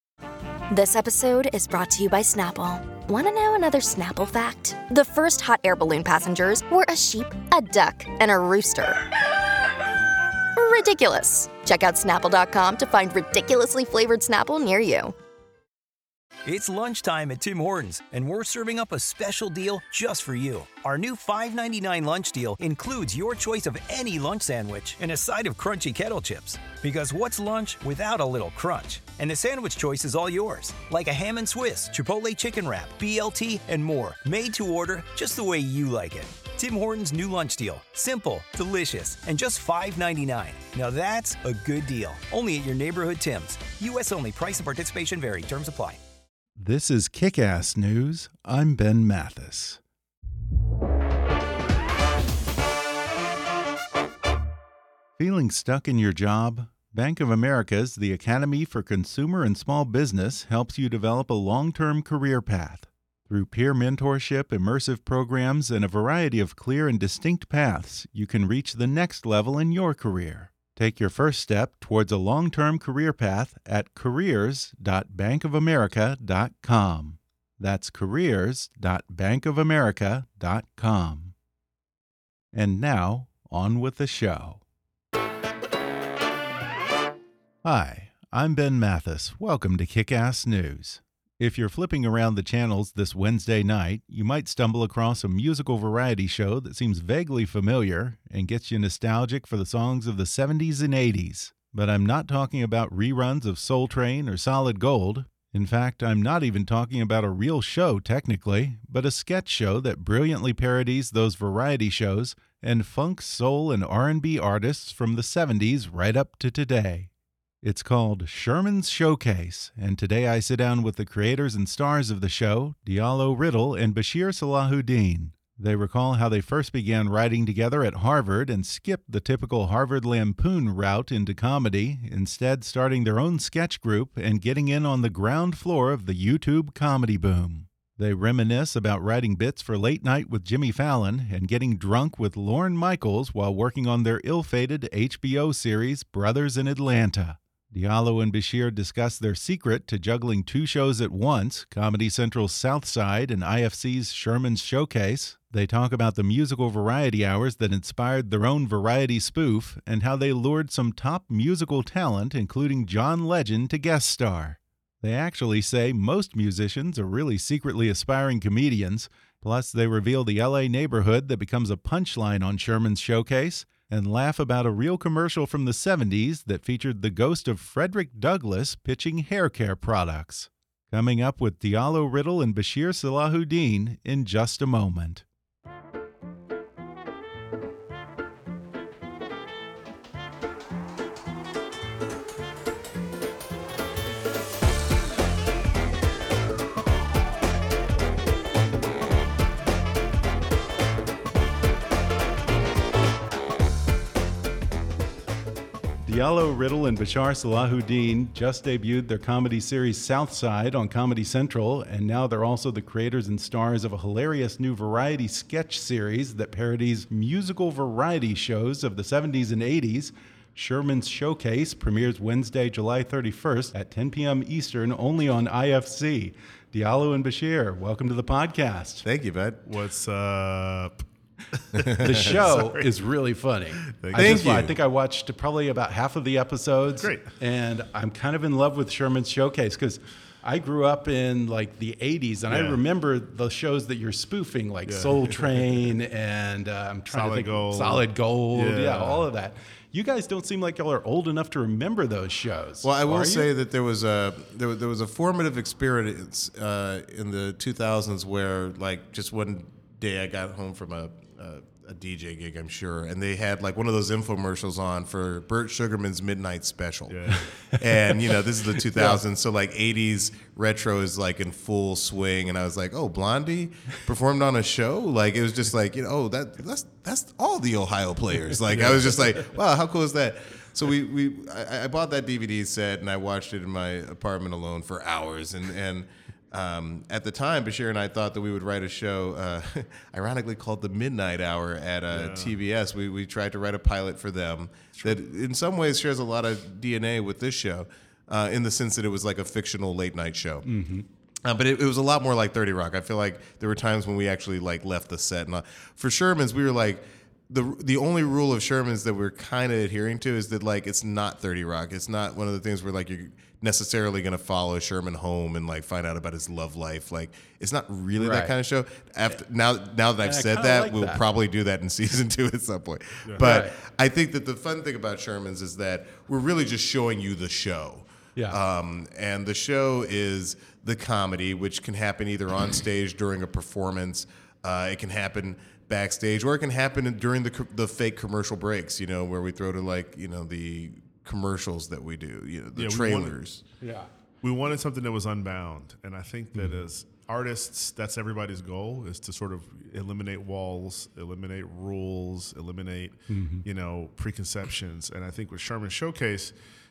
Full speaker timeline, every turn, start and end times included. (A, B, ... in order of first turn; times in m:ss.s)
0:00.7-0:09.0 A
0:10.6-0:15.1 A
0:16.4-0:46.0 B
0:46.6-0:49.8 C
0:55.2-1:21.3 C
1:22.5-1:24.6 C
1:27.6-1:57.1 C
1:57.6-3:05.2 C
3:26.0-3:49.0 C
3:49.0-3:49.6 D
3:49.6-3:52.9 E
3:51.8-3:52.3 D
3:52.0-4:13.5 C
3:53.8-3:54.7 E
3:54.1-3:54.5 D
3:57.0-3:57.3 E
4:02.5-4:02.8 E
4:07.1-4:09.2 E
4:12.8-5:00.7 D
4:27.1-4:27.4 E
4:27.3-4:27.6 C
4:28.9-4:29.2 C
4:52.1-4:52.5 E
5:00.6-5:01.0 C
5:01.4-5:43.6 D
5:18.2-5:18.5 C
5:20.2-5:21.2 C
5:23.4-5:23.7 C
5:42.7-5:43.3 E
5:43.8-5:44.1 C
5:44.4-5:56.5 E
5:46.5-5:46.8 C
5:53.3-5:53.6 C